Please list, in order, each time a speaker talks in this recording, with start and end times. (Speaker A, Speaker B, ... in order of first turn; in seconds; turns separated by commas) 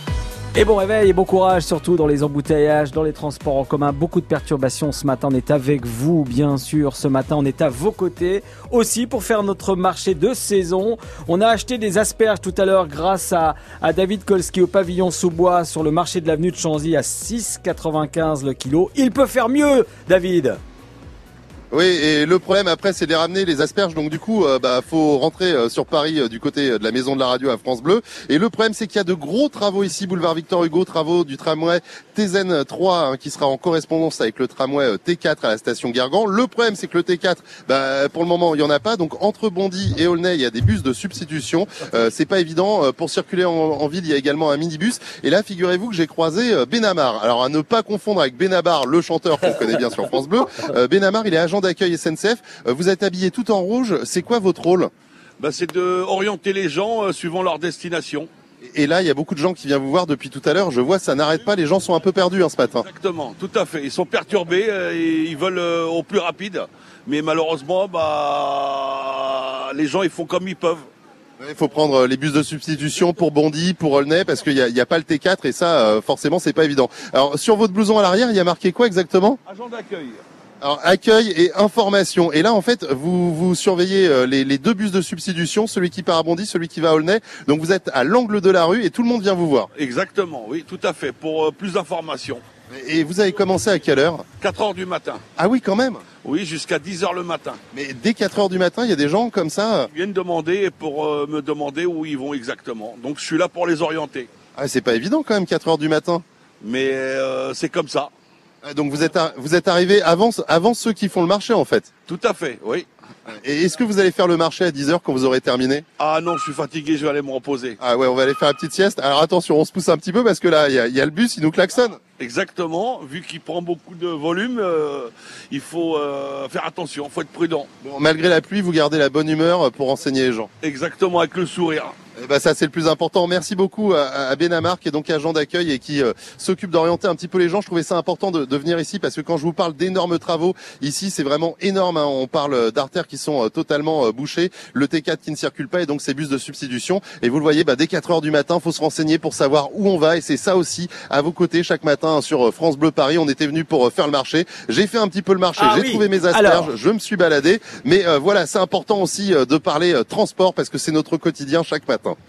Speaker A: 0.5-20.6, Speaker B: 21.7-54.9, Speaker C: 55.4-58.3, Speaker B: 58.6-62.8, Speaker C: 62.8-70.9, Speaker B: 71.4-79.4, Speaker C: 79.5-80.2, Speaker B: 80.6-89.7, Speaker C: 89.7-92.4, Speaker B: 92.7-94.2, Speaker C: 94.4-95.2, Speaker B: 95.4-96.0, Speaker C: 96.2-97.6, Speaker B: 97.7-99.9, Speaker C: 99.9-104.3, Speaker B: 104.5-106.2, Speaker C: 106.6-108.1, Speaker B: 108.6-111.9, Speaker C: 112.1-112.9, Speaker B: 113.3-115.8, Speaker C: 116.0-117.8, Speaker B: 117.8-122.0, Speaker C: 122.2-127.7, Speaker B: 127.8-130.5, Speaker C: 130.6-131.9, Speaker B: 132.2-162.2, Speaker A: 155.6-156.7